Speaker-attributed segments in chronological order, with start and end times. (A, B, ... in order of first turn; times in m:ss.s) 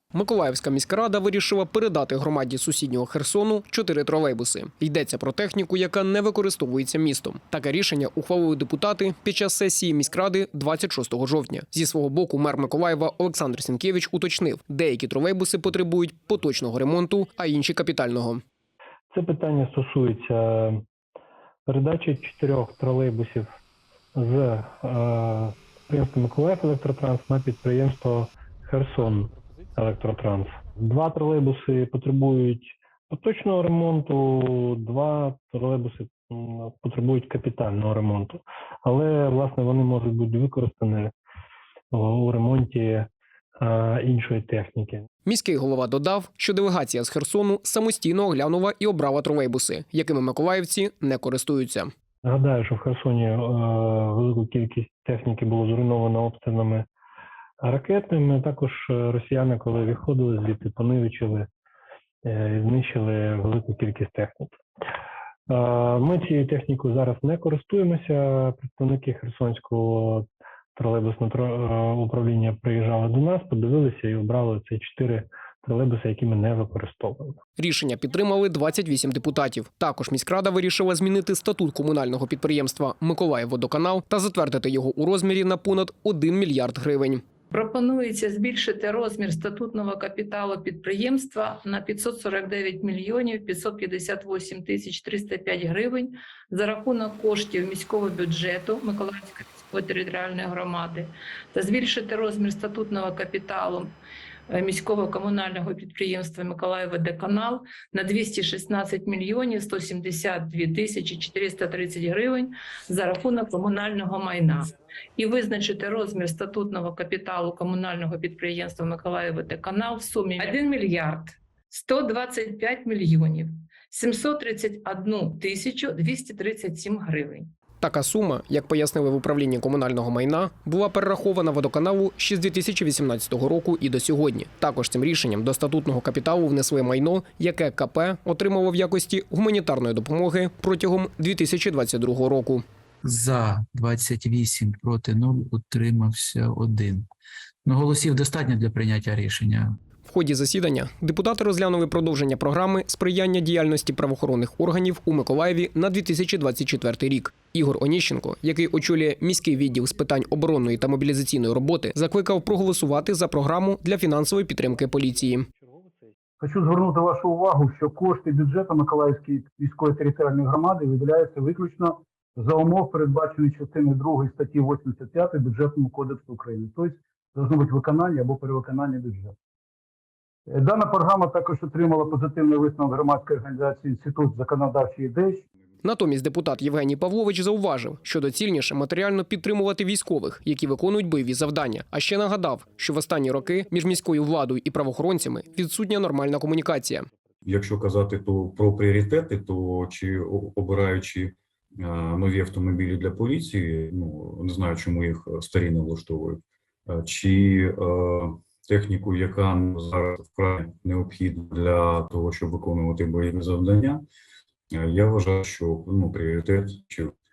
0:00.1-0:18.4 A
0:19.1-0:20.8 B
0:21.7-0:23.5 B
0:24.1-0:41.1 B
0:41.9-0:43.1 B
0:43.6-0:45.0 B
0:45.2-0:51.9 A
0:52.2-0:56.9 B
0:57.6-1:01.5 B
1:02.2-1:04.6 B
1:05.5-1:17.4 B
1:17.6-1:27.2 A
1:27.5-1:44.0 C
1:44.5-2:07.5 C
2:07.8-2:22.6 A
2:23.0-2:27.0 D
2:27.6-2:29.7 D
2:30.0-2:45.4 A
2:46.4-2:59.3 E
3:00.5-3:05.4 E
3:05.8-3:17.1 A
3:17.4-3:34.0 F
3:34.7-3:37.1 F